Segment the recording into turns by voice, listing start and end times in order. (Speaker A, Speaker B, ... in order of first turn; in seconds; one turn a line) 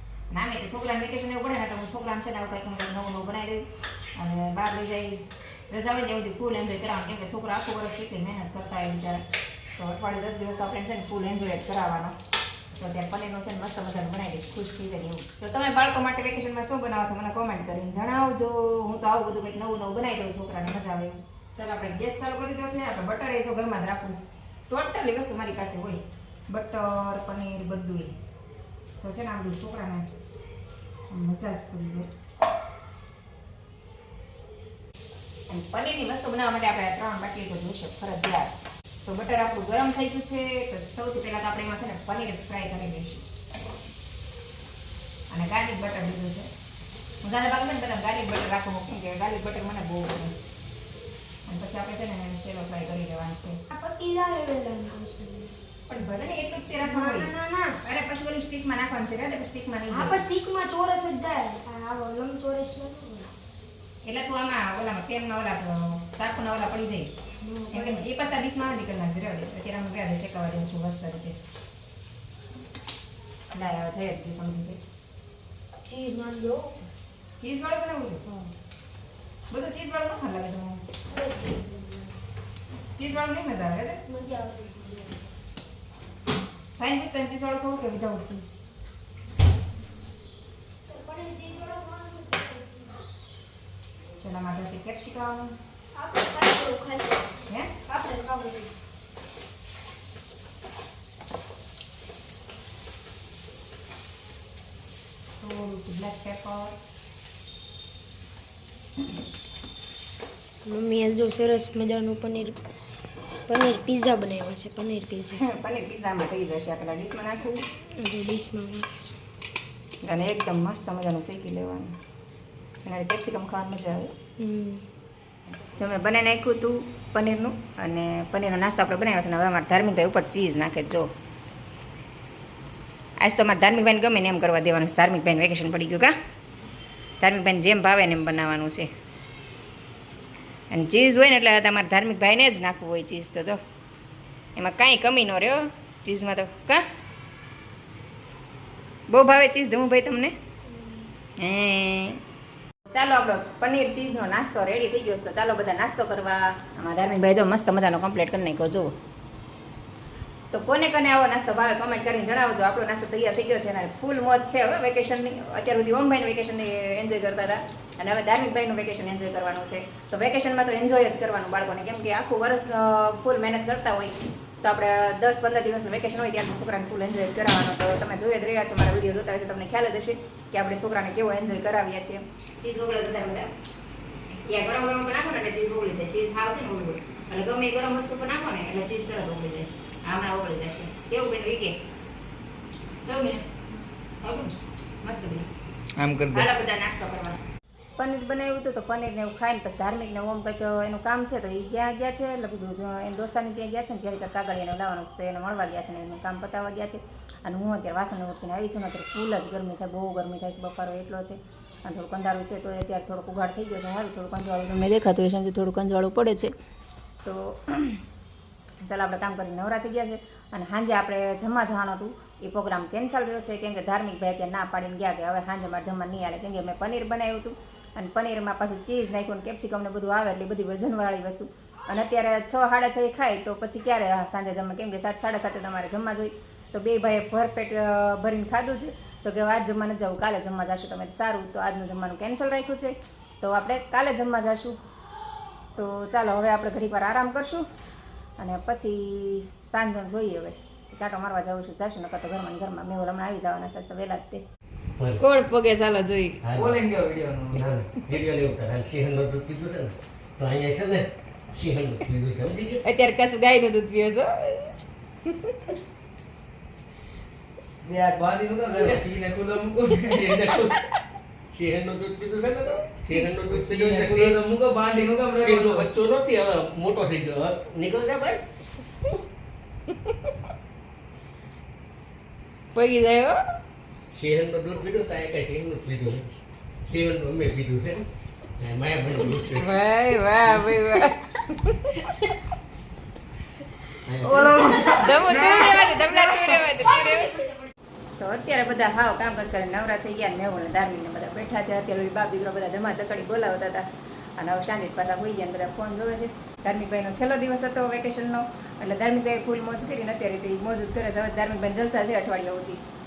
Speaker A: 0.3-9.2
Speaker A: 9.8-12.2
Speaker A: 12.8-24.2
Speaker A: 24.7-28.1
Speaker A: 29.0-30.1
Speaker A: 31.1-32.1
Speaker A: 35.5-38.5
Speaker A: 39.1-43.2
Speaker A: 45.3-46.5
Speaker A: 47.2-50.3
Speaker A: 51.5-53.6
Speaker B: 53.7-55.5
Speaker A: 55.9-60.2
Speaker B: 56.8-57.8
Speaker B: 59.9-63.3
Speaker A: 64.1-67.1
Speaker B: 67.4-68.1
Speaker A: 67.7-71.4
Speaker A: 73.5-74.8
Speaker B: 75.8-76.8
Speaker A: 77.4-78.4
Speaker A: 79.5-80.8
Speaker B: 81.1-82.1
Speaker A: 83.0-84.0
Speaker B: 84.1-85.3
Speaker A: 86.8-88.6
Speaker B: 90.9-93.0
Speaker A: 94.2-95.5
Speaker B: 96.0-98.8
Speaker A: 105.4-106.8
Speaker B: 110.7-112.6
Speaker B: 113.5-115.4
Speaker A: 115.3-117.7
Speaker B: 118.0-119.1
Speaker A: 120.0-122.0
Speaker A: 122.8-124.1
Speaker B: 124.4-124.8
Speaker A: 125.5-131.1
Speaker A: 133.2-136.1
Speaker A: 137.2-138.9
Speaker A: 140.7-143.6
Speaker A: 144.6-146.8
Speaker A: 149.1-150.3
Speaker A: 151.4-152.2
Speaker A: 152.9-158.9
Speaker A: 160.5-183.5
Speaker A: 184.5-191.8
Speaker A: 193.1-193.4
Speaker A: 194.2-195.5
Speaker C: 196.0-196.5
Speaker A: 196.3-197.4
Speaker A: 198.0-216.5
Speaker A: 217.2-218.0
Speaker A: 218.8-244.8
Speaker A: 245.8-247.7
Speaker A: 248.4-254.4
Speaker A: 255.2-256.4
Speaker D: 256.4-256.8
Speaker C: 256.6-257.7
Speaker D: 257.5-262.8
Speaker A: 262.8-265.7
Speaker C: 267.8-270.4
Speaker D: 268.7-269.3
Speaker D: 270.0-270.8
Speaker D: 271.5-274.4
Speaker C: 273.5-275.9
Speaker D: 275.4-278.4
Speaker A: 282.7-283.4
Speaker D: 284.1-286.3
Speaker D: 286.9-288.1
Speaker D: 288.6-289.7
Speaker A: 289.6-292.3
Speaker D: 294.1-295.3
Speaker A: 294.8-297.5
Speaker A: 298.2-303.9
Speaker A: 304.4-312.8